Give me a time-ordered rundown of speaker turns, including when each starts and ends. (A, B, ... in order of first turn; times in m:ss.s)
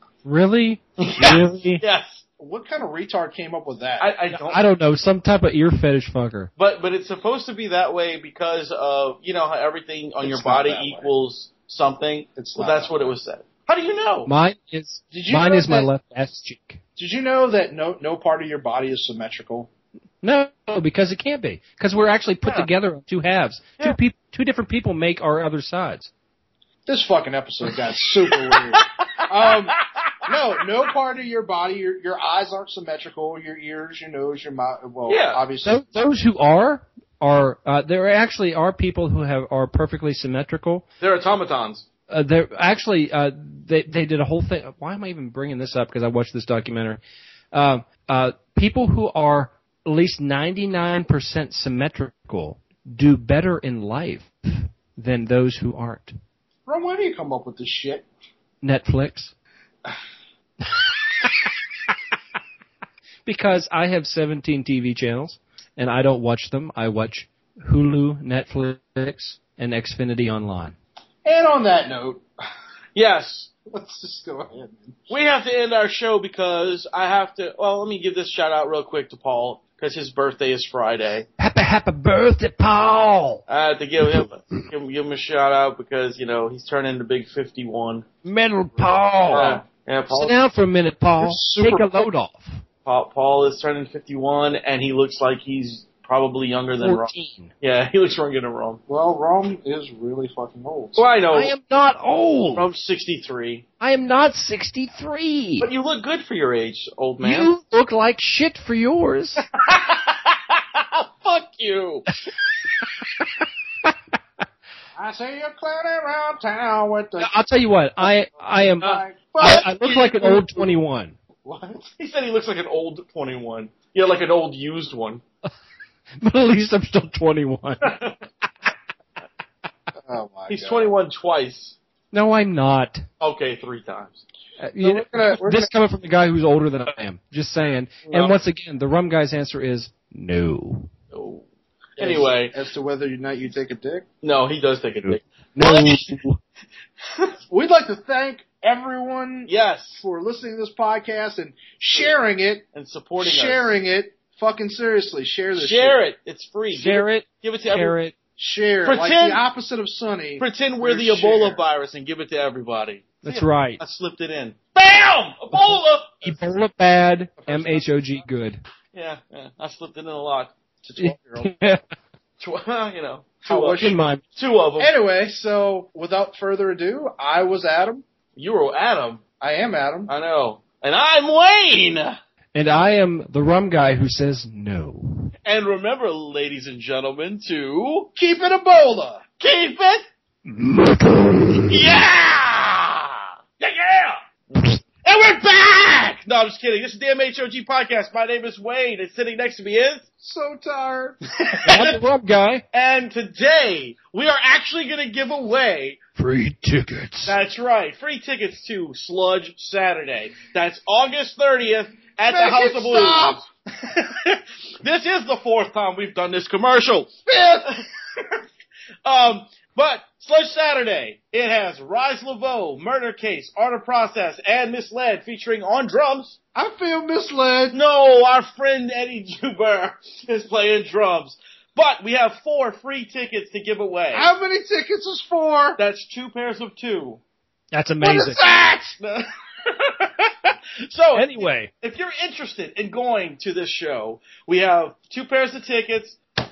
0:00.2-0:01.8 A
0:01.0-0:02.2 B
0:02.4-0:04.1 C
0:04.0-0:04.6 B
0:04.3-0:06.5 A
0:06.6-0:14.3 B
0:10.2-0:11.1 C
0:12.4-0:13.1 C
0:14.3-0:16.8 A
0:15.1-0:15.9 C
0:17.0-0:19.7 C
0:20.2-0:26.1 A
0:22.4-0:22.7 B
0:26.8-0:35.8 C
0:28.3-0:29.7 B
0:35.1-0:35.4 B
0:35.6-0:40.8 A
0:41.0-0:41.8 B
0:42.1-0:47.0 A
0:47.5-0:56.2 A
0:56.6-0:58.1 C
0:58.6-0:59.3 A
1:03.2-1:10.8 A
1:11.2-1:12.2 C
1:12.9-1:13.5 B
1:13.6-1:15.1 C
1:15.1-1:21.3 B
1:21.4-1:23.4 A
1:23.5-1:28.1 B
1:24.0-1:24.6 A
1:28.2-1:32.6 A
1:28.9-1:29.6 C
1:29.3-1:30.4 B
1:31.2-1:32.1 C
1:32.8-1:38.8 B
1:36.8-1:37.5 A
1:38.9-1:41.1 C
1:40.9-1:41.5 B
1:41.3-1:42.7 A
1:42.5-1:43.7 B
1:43.8-1:45.7 A
1:45.6-1:47.5 B
1:47.2-1:49.4 A
1:49.5-1:52.1 B
1:55.0-1:57.5 C
1:57.2-2:01.2 A
1:58.0-2:00.7 C
2:01.4-2:01.9 C
2:02.0-2:05.2 B
2:06.2-2:08.0 A
2:07.8-2:08.2 B
2:10.0-2:10.9 C
2:10.5-2:11.8 B
2:12.1-2:13.0 A
2:13.2-2:14.2 B
2:14.6-2:20.9 A
2:14.8-2:15.7 C
2:18.1-2:18.4 B
2:21.1-2:21.4 B
2:22.0-2:22.5 B
2:22.0-2:24.1 C
2:24.2-2:26.2 B
2:25.0-2:26.4 A
2:27.5-2:32.6 C
2:29.5-2:30.0 B
2:32.7-2:33.8 B
2:33.2-2:36.0 C
2:35.5-2:38.0 B
2:36.7-2:38.1 A
2:38.4-2:41.6 C
2:38.8-2:39.4 B
2:40.4-2:46.4 B
2:43.2-2:43.8 A
2:46.2-2:48.6 A
2:47.4-2:47.8 C
2:48.9-2:50.5 B
2:50.8-2:51.5 C
2:51.0-2:51.8 A
2:52.4-2:54.9 B
2:53.4-2:54.0 C
2:53.8-2:54.2 A
2:54.8-2:58.0 C
2:58.4-2:59.2 B
2:59.4-3:00.1 C
3:00.1-3:02.2 B
3:02.5-3:05.3 A
3:05.4-3:08.1 B
3:08.2-3:09.2 C
3:09.4-3:10.0 B
3:10.5-3:11.8 A
3:11.5-3:20.0 B
3:20.2-3:21.2 C
3:21.4-3:22.0 B
3:21.6-3:22.6 A
3:22.7-3:26.0 B
3:26.2-3:27.4 A
3:27.2-3:37.8 B
3:32.2-3:33.4 C
3:37.3-3:37.7 C
3:39.0-3:46.4 B
3:46.5-3:47.8 C
3:47.7-3:54.3 B
3:54.1-3:55.8 C
3:55.8-3:57.2 B
3:57.7-3:58.4 A
3:58.0-3:58.9 C
3:58.5-4:06.2 B
4:01.1-4:01.7 A